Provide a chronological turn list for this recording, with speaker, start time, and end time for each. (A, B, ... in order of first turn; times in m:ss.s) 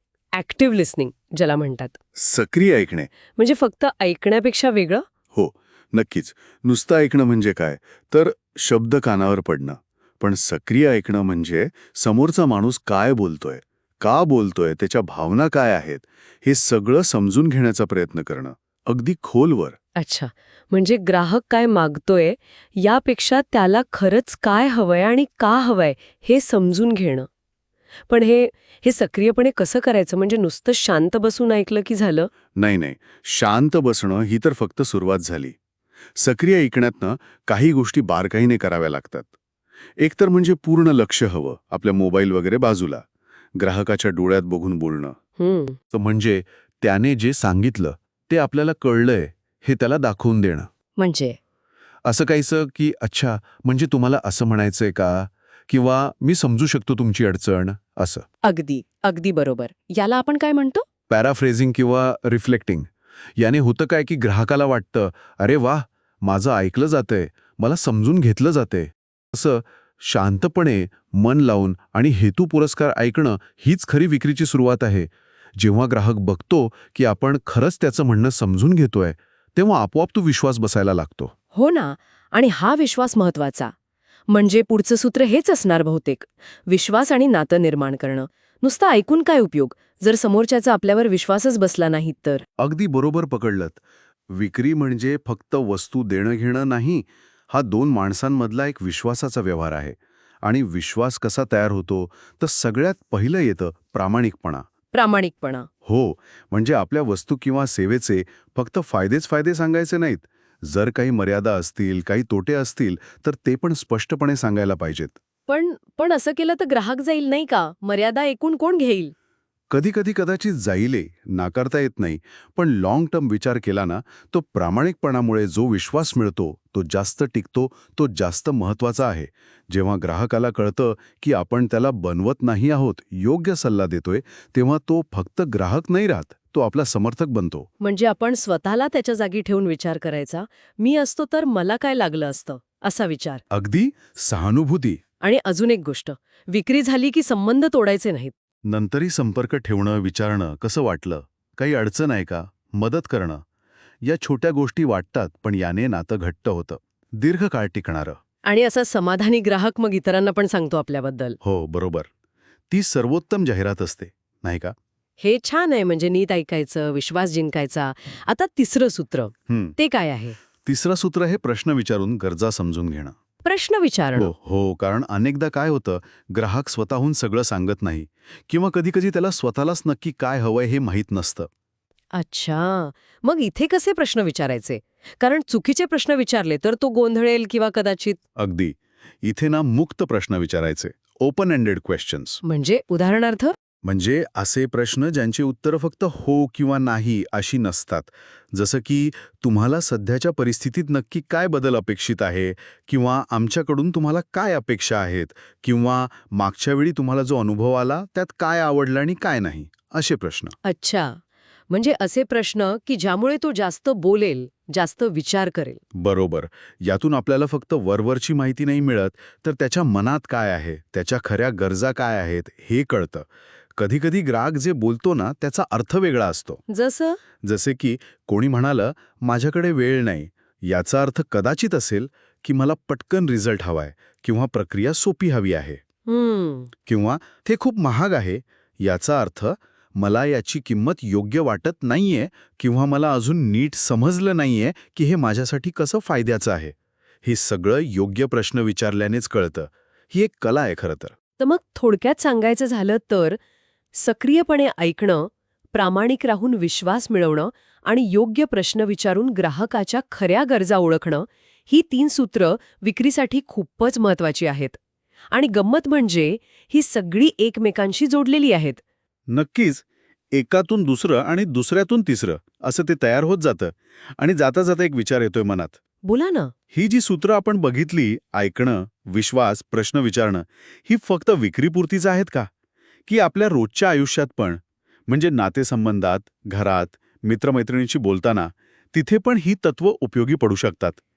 0:00.3-0:02.0 A
0:02.2-0:03.1 B
0:03.4-0:05.0 A
0:05.3-0:19.8 B
0:20.0-0:27.3 A
0:28.1-0:32.3 A
0:32.6-0:35.6 B
0:36.2-0:39.3 B
0:40.0-0:43.0 B
0:43.6-0:45.2 B
0:45.4-0:45.8 A
0:45.9-0:50.7 B
0:51.0-0:51.4 A
0:52.0-0:58.2 B
0:58.4-1:00.8 A
1:01.1-1:21.3 B
1:21.5-1:23.7 A
1:24.3-1:32.4 A
1:32.6-1:33.8 B
1:34.3-1:44.7 B
1:44.9-1:45.7 A
1:45.8-1:55.2 B
1:55.5-1:59.1 A
1:59.7-2:17.7 B
2:17.8-2:23.4 A
2:23.5-2:25.0 B
2:25.2-2:28.3 A
2:28.6-2:33.4 B
2:34.0-2:38.2 B
2:38.4-2:41.4 A
2:41.4-2:42.1 B
2:42.7-2:44.7 B
2:45.2-2:50.4 A
2:49.5-2:49.8 B
2:50.6-2:53.1 B
2:53.4-2:54.3 A
2:54.2-3:01.5 B
3:02.1-3:08.2 A
3:08.4-3:12.4 B
3:12.4-3:13.5 A
3:13.8-3:30.6 B
3:30.6-3:35.8 A
3:35.9-3:46.6 B
3:46.7-3:47.2 A
3:47.4-3:55.8 B
3:56.1-3:56.7 A
3:56.9-4:11.1 B
4:11.4-4:13.4 A
4:13.9-4:24.8 A
4:25.3-4:28.8 A
4:29.3-4:35.8 B
4:36.0-4:36.5 A
4:36.7-4:42.5 B
4:43.0-4:51.0 B